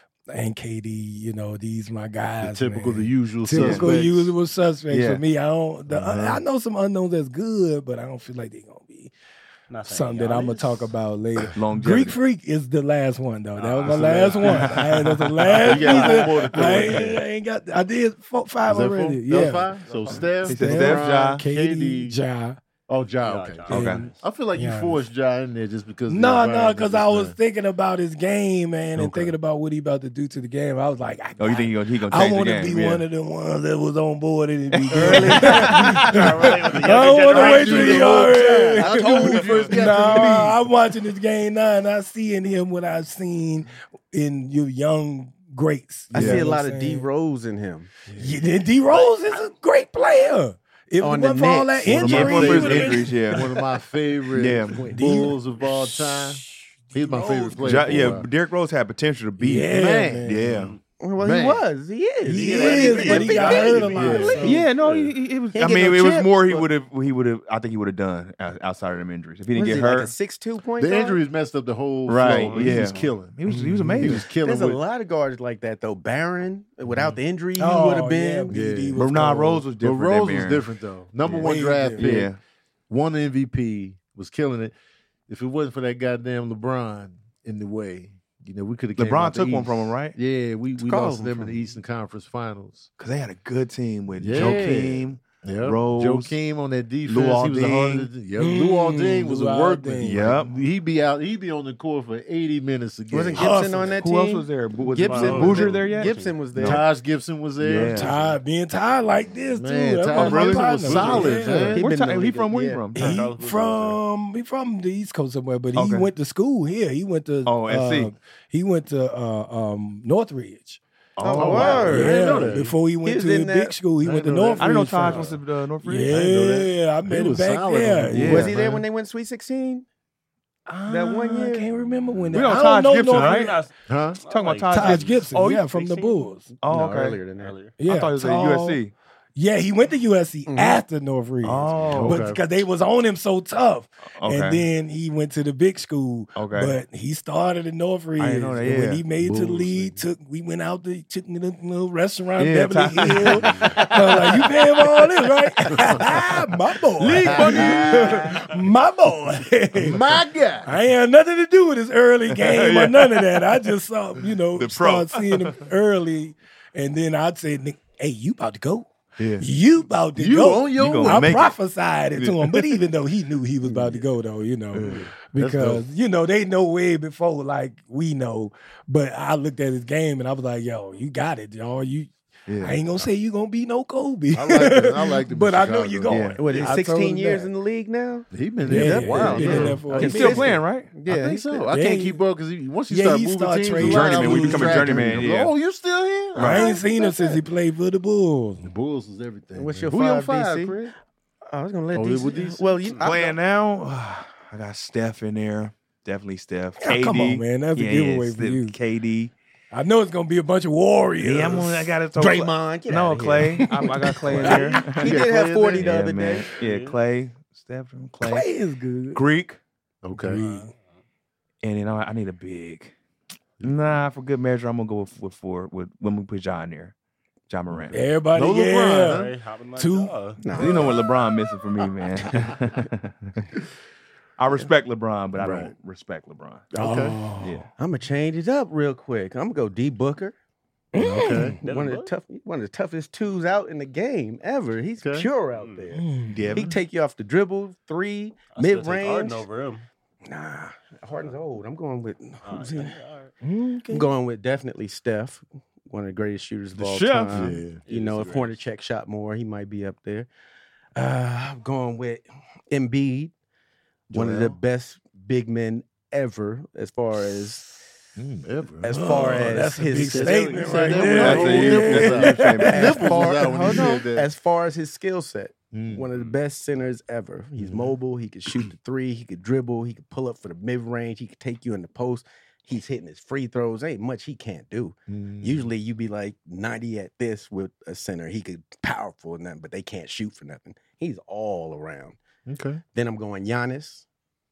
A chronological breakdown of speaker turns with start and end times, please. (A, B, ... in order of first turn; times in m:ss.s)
0:00.3-0:09.1 A
0:02.4-0:04.3 B
0:03.5-0:03.9 C
0:04.9-0:05.2 C
0:05.9-0:06.4 B
0:09.7-0:10.9 D
0:09.9-0:19.8 A
0:11.5-0:12.2 C
0:13.6-0:14.8 D
0:13.9-0:14.7 B
0:14.5-0:17.1 C
0:15.6-0:17.2 B
0:15.7-0:16.2 D
0:18.6-0:22.2 B
0:19.4-0:20.5 D
0:20.4-0:22.6 A
0:20.4-0:21.4 C
0:22.9-0:23.7 B
0:23.2-0:24.2 D
0:23.7-0:24.1 C
0:23.7-0:25.0 A
0:24.2-0:27.3 B
0:26.1-0:47.1 A
0:29.0-0:29.3 C
0:31.4-0:33.0 C
0:34.7-0:36.3 C
0:34.9-0:36.2 E
0:35.6-0:38.3 D
0:36.9-0:40.6 B
0:38.2-0:39.7 E
0:46.1-0:48.0 E
0:46.2-0:46.4 B
0:48.1-0:53.4 A
0:48.9-0:49.2 D
0:51.0-0:52.4 E
0:51.8-0:58.3 B
0:51.9-0:53.4 C
0:54.3-0:55.0 C
0:54.9-0:58.2 A
0:57.6-1:00.7 C
0:59.4-1:00.5 A
0:59.6-1:00.4 B
1:00.4-1:00.8 D
1:01.0-1:04.4 E
1:01.2-1:01.6 B
1:02.2-1:04.7 A
1:02.3-1:05.2 D
1:02.7-1:04.4 B
1:04.4-1:10.1 C
1:05.5-1:06.7 E
1:09.5-1:11.2 E
1:10.8-1:14.8 B
1:12.0-1:14.3 C
1:12.2-1:13.0 D
1:13.4-1:14.2 A
1:14.3-1:18.8 E
1:17.6-1:19.6 A
1:18.5-1:19.0 B
1:18.9-1:20.6 C
1:19.8-1:22.3 B
1:21.4-1:22.2 A
1:22.0-1:22.4 C
1:22.9-1:24.7 B
1:25.3-1:32.9 B
1:29.0-1:30.2 C
1:30.8-1:31.6 E
1:33.0-1:36.4 C
1:34.2-1:43.9 B
1:37.1-1:38.1 C
1:38.4-1:40.3 A
1:40.0-1:40.5 C
1:43.1-1:43.5 C
1:43.2-1:46.8 E
1:43.3-1:43.9 A
1:44.0-1:46.8 C
1:44.9-1:46.5 D
1:46.6-1:48.3 B
1:47.6-1:48.1 C
1:47.8-1:51.8 A
1:49.5-1:51.8 B
1:50.1-1:53.2 C
1:51.7-1:52.9 E
1:52.9-2:00.8 A
1:53.0-1:54.0 D
1:55.7-1:56.1 C
1:57.4-1:58.1 C
2:01.2-2:02.1 C
2:01.2-2:02.2 E
2:01.4-2:02.7 B
2:01.6-2:02.7 D
2:01.6-2:05.3 A
2:03.0-2:03.8 E
2:04.0-2:05.3 B
2:04.6-2:06.4 C
2:05.1-2:05.4 D
2:05.8-2:08.5 A
2:06.1-2:08.8 B
2:08.1-2:08.5 C
2:08.3-2:09.8 E
2:10.7-2:13.6 A
2:10.9-2:11.7 E
2:12.1-2:12.3 B
2:12.3-2:13.6 C
2:12.9-2:15.3 D
2:13.9-2:14.2 B
2:14.3-2:16.1 C
2:14.7-2:16.5 A
2:16.6-2:17.2 C
2:16.7-2:17.6 E
2:17.3-2:17.8 D
2:17.8-2:18.8 A
2:17.8-2:18.9 C
2:19.4-3:07.5 A
2:20.5-2:20.8 E
2:21.4-2:22.2 C
2:21.8-2:22.4 B
2:24.2-2:24.6 C
2:26.3-2:26.8 C
2:28.2-2:29.0 C
2:29.2-2:30.0 B
2:32.4-2:34.7 C
2:35.7-2:36.3 B
2:37.0-2:38.4 B
2:37.0-2:38.5 C
2:39.8-2:40.8 B
2:42.3-2:43.6 C
2:44.6-2:45.6 C
2:50.2-2:51.4 B
2:50.8-2:51.6 C
2:52.2-2:52.8 C
2:54.7-2:55.8 B
3:02.5-3:02.8 C
3:04.3-3:06.4 B
3:06.0-3:06.4 C
3:06.4-3:11.8 E
3:08.3-3:09.8 B
3:08.6-3:10.5 A
3:08.8-3:10.9 C
3:11.0-3:16.7 B
3:11.7-3:12.2 A
3:12.9-3:15.1 A
3:13.8-3:15.5 C
3:16.4-3:16.7 C
3:16.4-3:18.7 A
3:16.5-3:17.4 E
3:18.6-3:20.9 B
3:19.5-3:20.8 E
3:21.5-3:23.4 E
3:21.9-3:22.9 B
3:23.0-3:29.3 C
3:26.8-3:28.8 A
3:29.7-3:31.9 A
3:31.2-3:35.2 C
3:32.1-3:36.6 E
3:33.5-3:34.8 A
3:35.0-3:36.1 B
3:35.8-3:38.4 C
3:36.6-3:37.0 D
3:38.2-3:39.2 A
3:39.1-3:39.6 C
3:40.0-3:40.4 B
3:40.2-3:40.7 A
3:40.3-3:41.0 D
3:41.6-3:42.9 C
3:43.6-3:44.0 B
3:43.6-3:46.9 C
3:47.5-3:48.0 C
3:47.7-3:49.3 B
3:47.9-3:50.1 A
3:49.0-3:50.6 D
3:50.4-3:51.1 E
3:50.5-3:53.4 C
3:52.2-3:52.6 E
3:54.4-3:56.7 C
3:55.4-3:55.7 B
3:56.8-3:57.6 A
3:56.8-3:57.2 B
3:57.4-3:57.6 C
3:57.8-4:00.3 E
4:00.9-4:01.6 A
4:01.0-4:01.6 B
4:01.6-4:02.1 D
4:01.6-4:09.4 E
4:05.0-4:05.3 B
4:05.5-4:05.9 D
4:05.9-4:06.5 A
4:06.3-4:06.7 C
4:08.5-4:09.9 D
4:10.2-4:13.0 E
4:12.4-4:13.3 D
4:13.4-4:14.1 A
4:13.9-4:20.3 E
4:16.8-4:17.6 C
4:17.3-4:17.8 B
4:17.8-4:18.6 D
4:21.0-4:23.3 E
4:24.1-4:24.6 B
4:24.1-4:27.7 E
4:28.2-4:34.3 B
4:28.8-4:31.8 E
4:28.9-4:34.0 A
4:31.0-4:33.3 C
4:32.6-4:52.2 E
4:35.7-4:36.0 B
4:37.6-4:37.9 B
4:45.1-4:45.7 B
4:52.4-4:52.8 B
4:52.9-4:54.0 E